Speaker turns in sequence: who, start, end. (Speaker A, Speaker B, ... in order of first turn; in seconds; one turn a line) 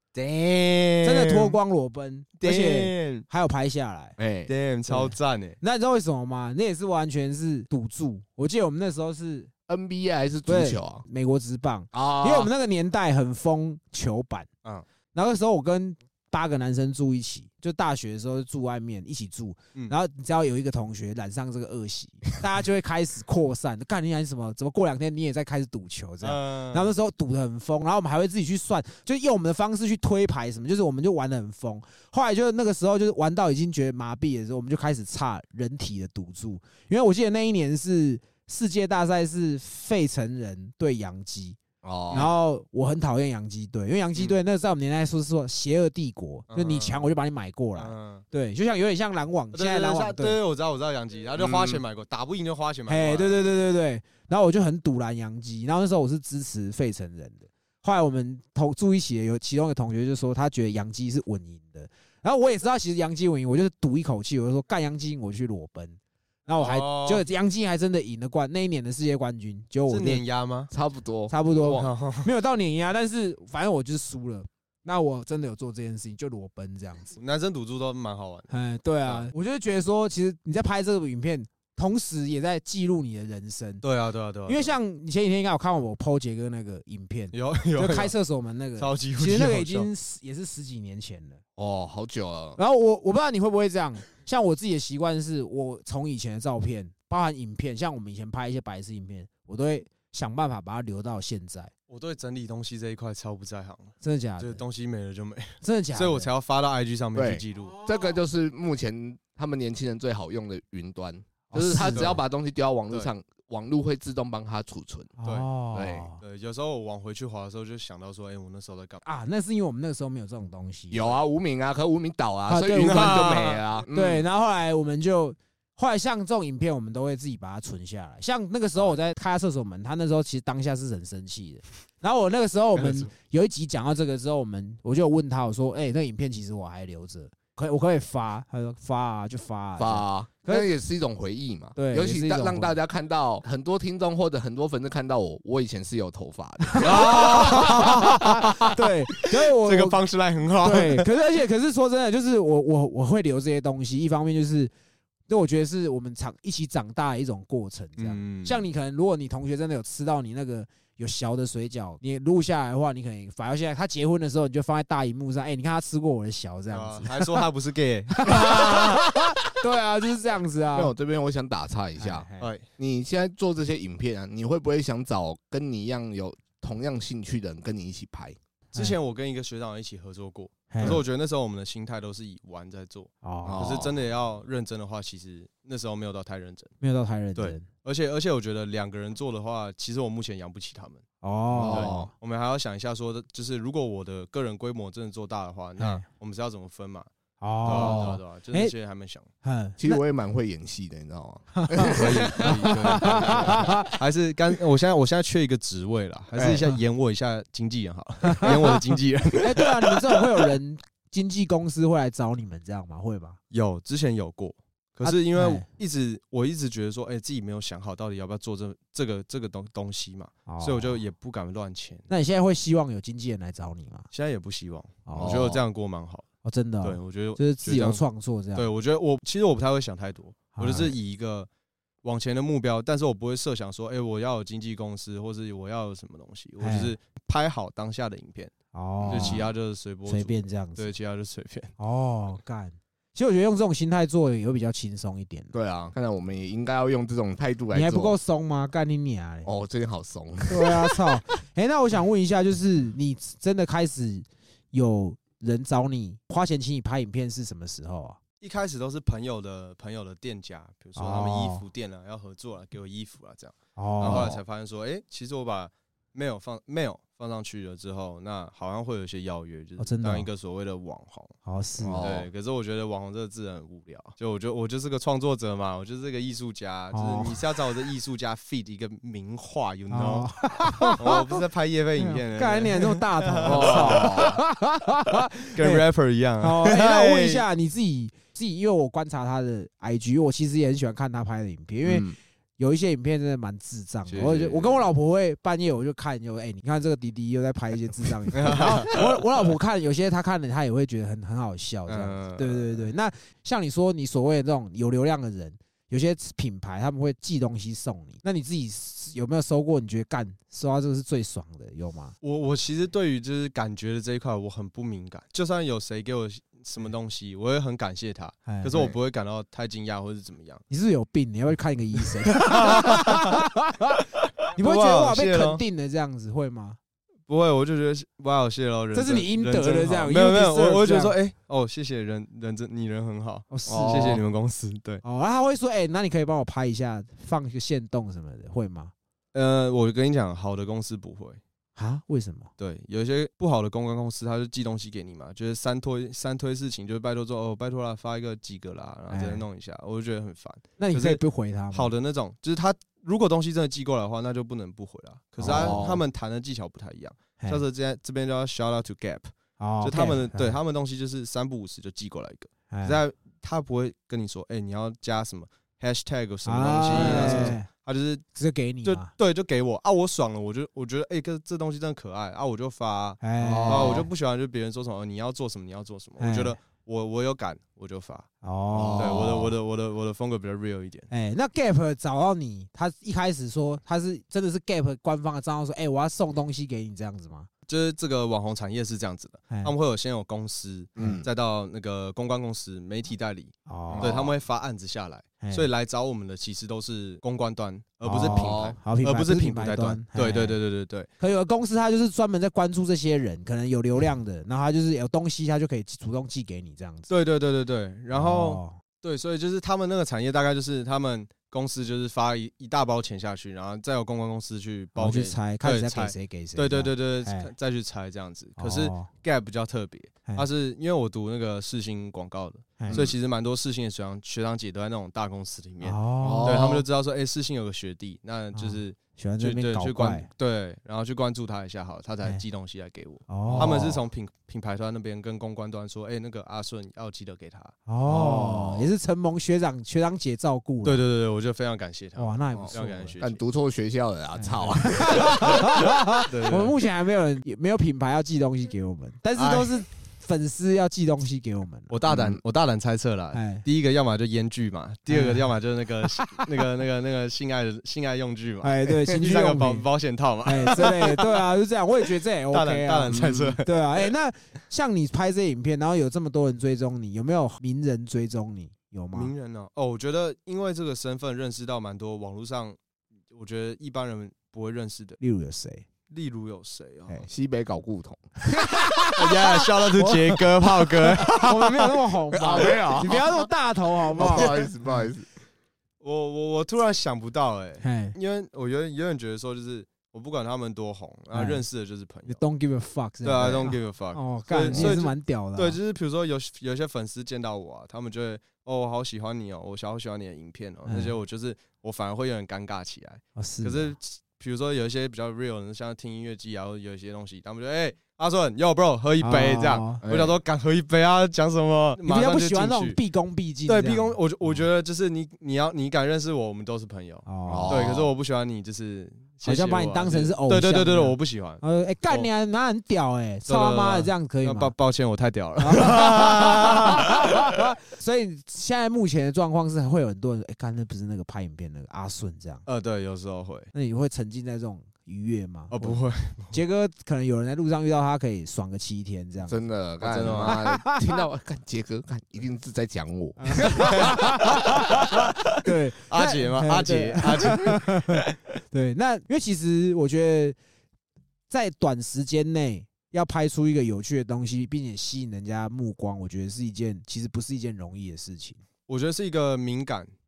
Speaker A: 0.1-1.6
Speaker B: 1.0-4.2
Speaker A: 2.4-3.2
Speaker C: 4.2-4.5
Speaker A: 4.5-5.6
Speaker B: 4.9-9.5
Speaker C: 9.7-11.0
Speaker B: 10.5-14.5
Speaker C: 11.9-12.5
Speaker B: 15.1-41.6
Speaker A: 26.2-26.9
Speaker C: 41.8-42.3
Speaker B: 42.1-50.4
Speaker A: 46.5-47.1
Speaker A: 47.8-48.2
Speaker A: 49.5-53.5
Speaker C: 51.4-51.8
Speaker B: 52.9-70.2
Speaker A: 66.6-67.2
Speaker A: 69.9-70.7
Speaker C: 70.7-71.8
Speaker B: 71.3-77.1
Speaker A: 71.6-72.3
Speaker A: 77.1-78.5
Speaker B: 78.5-83.8
Speaker A: 83.8-84.7
Speaker B: 84.5-91.4
Speaker A: 87.3-88.1
Speaker A: 88.8-89.9
Speaker C: 91.6-92.6
Speaker B: 92.6-101.7
Speaker A: 101.9-107.8
Speaker B: 104.0-104.6
Speaker B: 105.6-106.3
Speaker C: 107.1-115.1
Speaker B: 111.5-112.2
Speaker A: 111.9-112.2
Speaker B: 115.2-116.2
Speaker C: 115.7-116.1
Speaker A: 116.2-119.0
Speaker B: 119.0-121.2
Speaker C: 120.9-124.2
Speaker B: 122.5-140.7
Speaker A: 122.7-123.6
Speaker A: 132.8-133.1
Speaker C: 139.8-148.1
Speaker B: 141.8-142.8
Speaker B: 146.7-150.0
Speaker A: 146.8-151.1
Speaker B: 150.6-154.7
Speaker B: 155.3-167.4
Speaker A: 158.0-158.6
Speaker A: 166.7-169.0
Speaker B: 168.1-170.9
Speaker C: 169.6-170.2
Speaker C: 170.7-178.3
Speaker B: 172.0-172.5
Speaker A: 172.4-172.7
Speaker A: 178.7-186.7
Speaker B: 180.7-181.0
Speaker B: 183.2-183.7
Speaker C: 183.4-183.9
Speaker B: 186.8-187.7
Speaker A: 187.3-191.0
Speaker B: 191.2-192.1
Speaker C: 191.5-192.1
Speaker A: 191.6-197.1
Speaker B: 195.8-196.0
Speaker B: 197.4-198.7
Speaker A: 197.6-199.3
Speaker C: 197.7-198.2
Speaker B: 199.4-200.0
Speaker C: 199.8-203.7
Speaker B: 201.5-203.9
Speaker A: 201.9-210.2
Speaker C: 206.3-206.6
Speaker B: 208.2-208.8
Speaker B: 209.4-213.4
Speaker A: 213.5-222.1
Speaker B: 215.0-215.7
Speaker B: 220.5-221.0
Speaker B: 222.1-224.1
Speaker A: 224.1-226.3
Speaker B: 225.1-225.4
Speaker C: 225.2-225.6
Speaker B: 226.4-228.7
Speaker A: 226.8-228.0
Speaker A: 228.5-231.5
Speaker B: 230.5-230.9
Speaker A: 232.0-238.5
Speaker B: 236.6-236.9
Speaker B: 238.7-239.5
Speaker C: 239.0-239.5
Speaker A: 239.1-241.7
Speaker B: 240.1-240.9
Speaker B: 241.8-245.5
Speaker C: 245.5-248.2
Speaker B: 247.7-249.5
Speaker C: 249.4-250.9
Speaker B: 250.5-258.2
Speaker A: 258.4-271.4
Speaker B: 260.9-261.6
Speaker B: 263.8-264.3
Speaker C: 264.0-264.4
Speaker B: 269.8-270.3
Speaker B: 271.4-272.1
Speaker C: 271.8-272.3
Speaker A: 272.0-284.3
Speaker B: 276.9-277.4
Speaker B: 279.9-281.3
Speaker B: 282.0-285.8
Speaker C: 283.4-284.4
Speaker A: 285.5-287.4
Speaker B: 286.4-312.1
Speaker C: 291.8-292.2
Speaker A: 294.1-294.8
Speaker A: 298.3-299.0
Speaker A: 301.9-302.8
Speaker A: 312.2-320.6
Speaker B: 318.4-318.8
Speaker B: 320.7-326.8
Speaker A: 322.3-323.4
Speaker A: 324.5-325.6
Speaker A: 327.3-335.0
Speaker B: 328.9-331.1
Speaker B: 333.5-334.2
Speaker C: 333.7-334.2
Speaker B: 335.0-338.9
Speaker A: 339.3-341.4
Speaker B: 341.8-342.5
Speaker A: 342.6-351.2
Speaker B: 349.1-349.4
Speaker B: 350.8-351.9
Speaker A: 351.7-368.2
Speaker B: 355.4-355.9
Speaker C: 355.4-356.0
Speaker B: 359.6-360.6
Speaker B: 362.7-363.0
Speaker B: 366.4-367.7
Speaker C: 366.9-367.6
Speaker B: 368.3-369.1
Speaker A: 368.8-378.3
Speaker B: 373.2-374.1
Speaker C: 373.4-374.1
Speaker B: 376.2-376.6
Speaker B: 378.4-379.2
Speaker C: 378.7-379.5
Speaker A: 378.9-381.1
Speaker B: 381.1-387.5
Speaker A: 387.7-401.1
Speaker B: 391.0-391.2
Speaker C: 391.0-391.3
Speaker B: 393.7-394.2
Speaker C: 393.9-394.3
Speaker B: 395.4-395.7
Speaker B: 398.0-400.6
Speaker C: 398.2-398.8
Speaker B: 401.2-407.1
Speaker A: 407.1-437.7
Speaker B: 408.1-408.8
Speaker B: 414.9-417.5
Speaker B: 418.6-419.1
Speaker B: 422.8-423.0
Speaker C: 422.9-423.1
Speaker B: 425.8-426.6
Speaker C: 426.2-426.8
Speaker B: 428.5-430.3
Speaker B: 433.3-434.0
Speaker C: 433.5-434.0
Speaker B: 437.9-441.0
Speaker C: 438.1-438.9
Speaker A: 440.8-443.4
Speaker B: 442.1-443.1
Speaker C: 442.5-445.6
Speaker B: 444.3-451.9
Speaker A: 445.2-445.6
Speaker A: 446.3-446.8
Speaker A: 449.3-449.7
Speaker A: 451.9-461.4
Speaker C: 452.1-452.4
Speaker B: 453.3-453.6
Speaker B: 455.1-455.5
Speaker B: 456.2-456.4
Speaker B: 458.6-459.9
Speaker B: 460.4-469.3
Speaker A: 462.5-464.1
Speaker C: 463.1-463.6
Speaker A: 469.1-472.8
Speaker A: 473.3-475.2
Speaker B: 475.2-475.9
Speaker A: 476.1-477.2
Speaker C: 477.3-478.3
Speaker B: 478.4-484.6
Speaker A: 479.1-482.0
Speaker C: 482.3-483.4
Speaker C: 484.1-485.3
Speaker A: 486.0-492.4
Speaker B: 487.8-488.1
Speaker B: 491.3-491.6
Speaker B: 492.3-495.8
Speaker A: 493.2-513.0
Speaker C: 493.4-493.7
Speaker C: 494.7-495.0
Speaker B: 500.9-501.1
Speaker B: 503.4-503.9
Speaker B: 509.2-510.0
Speaker C: 510.0-510.4
Speaker B: 512.0-514.6
Speaker A: 513.7-522.3
Speaker B: 517.2-517.8
Speaker C: 517.5-518.1
Speaker B: 519.4-524.7
Speaker A: 523.5-527.5
Speaker B: 525.6-532.6
Speaker A: 532.6-533.7
Speaker B: 533.7-536.0
Speaker A: 535.7-536.6
Speaker B: 536.5-539.6
Speaker C: 539.5-544.8
Speaker A: 540.0-540.6
Speaker B: 540.4-541.0
Speaker B: 543.4-550.6
Speaker A: 543.8-548.4
Speaker B: 551.5-558.6
Speaker A: 558.9-560.1